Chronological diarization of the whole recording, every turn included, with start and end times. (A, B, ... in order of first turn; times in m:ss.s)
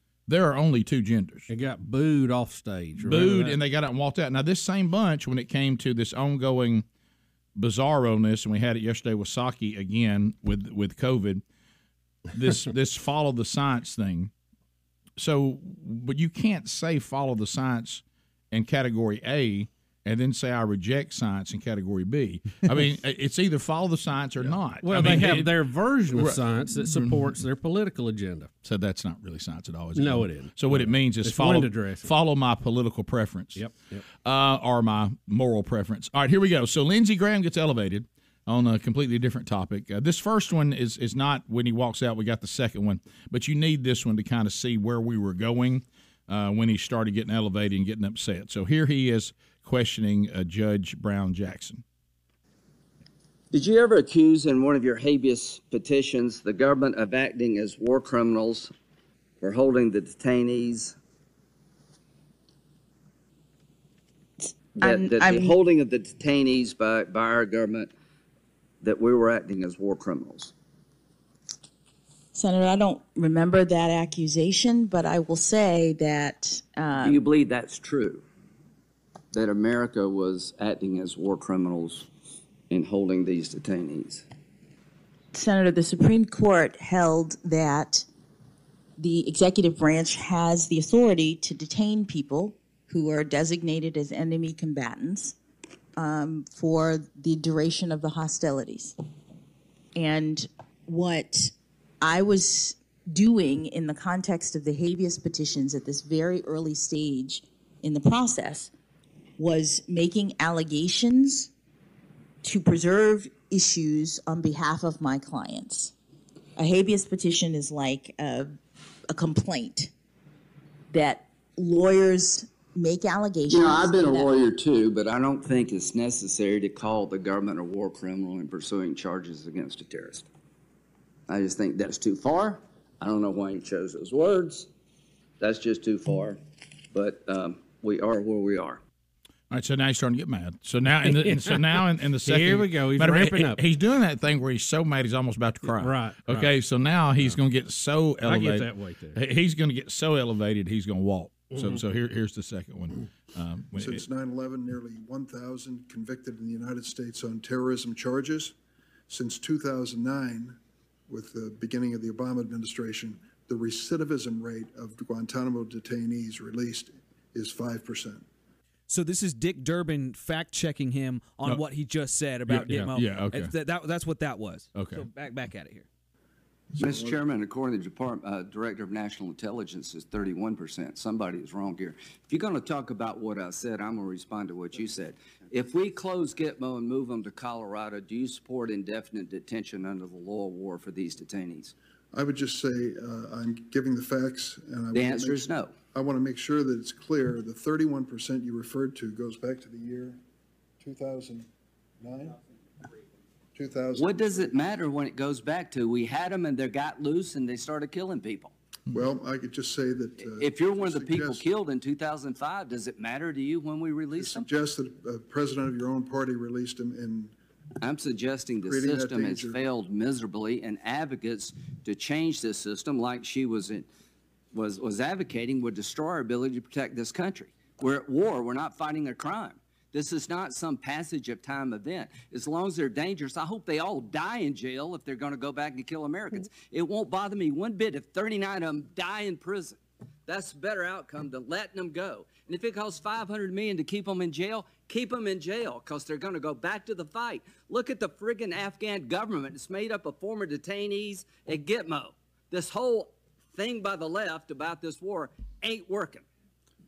0:00.3-0:01.5 A
0:01.5-0:03.6 B
0:03.0-0:06.8 A
0:07.6-0:11.4 A
0:12.3-0:14.3 A
0:15.2-0:25.6 A
0:24.4-0:28.5 B
0:26.1-0:27.2 A
0:28.6-0:33.6 A
0:30.0-0:32.1 B
0:33.6-0:34.0 B
0:34.2-0:51.8 A
0:53.5-0:58.7 C
0:59.4-1:01.0 C
1:04.4-1:05.5 D
1:04.8-1:07.9 C
1:08.8-1:10.5 C
1:12.3-1:17.2 D
1:17.0-1:18.2 C
1:19.3-1:22.1 C
1:22.7-1:24.2 C
1:25.3-1:28.1 D
1:29.0-1:35.4 D
1:36.0-1:39.0 D
1:40.0-1:48.7 D
1:49.4-1:51.5 D
1:52.4-1:55.9 D
1:56.6-1:58.5 D
1:59.1-1:59.9 D
2:00.9-2:04.3 D
2:03.5-2:10.3 C
2:11.3-2:14.7 C
2:15.4-2:16.4 C
2:16.9-2:18.8 C
2:19.5-2:34.0 A
2:21.0-2:21.6 B
2:22.2-2:23.6 B
2:25.7-2:26.5 B
2:28.2-2:29.2 B
2:31.5-2:31.8 B
2:33.8-2:38.5 E
2:39.1-2:40.6 E
2:41.1-2:48.2 E
2:48.9-2:55.9 F
2:52.5-2:53.5 A
2:54.7-2:55.0 A
2:56.8-2:57.2 E
2:56.8-3:11.7 C
3:12.1-3:20.2 E
3:14.9-3:15.7 C
3:20.8-3:21.5 E
3:22.0-3:22.4 E
3:23.6-3:24.6 E
3:23.9-3:28.5 C
3:28.9-3:31.4 E
3:30.4-3:34.5 C
3:34.2-3:37.3 E
3:37.8-3:43.9 C
3:38.6-3:39.6 E
3:44.5-4:16.2 C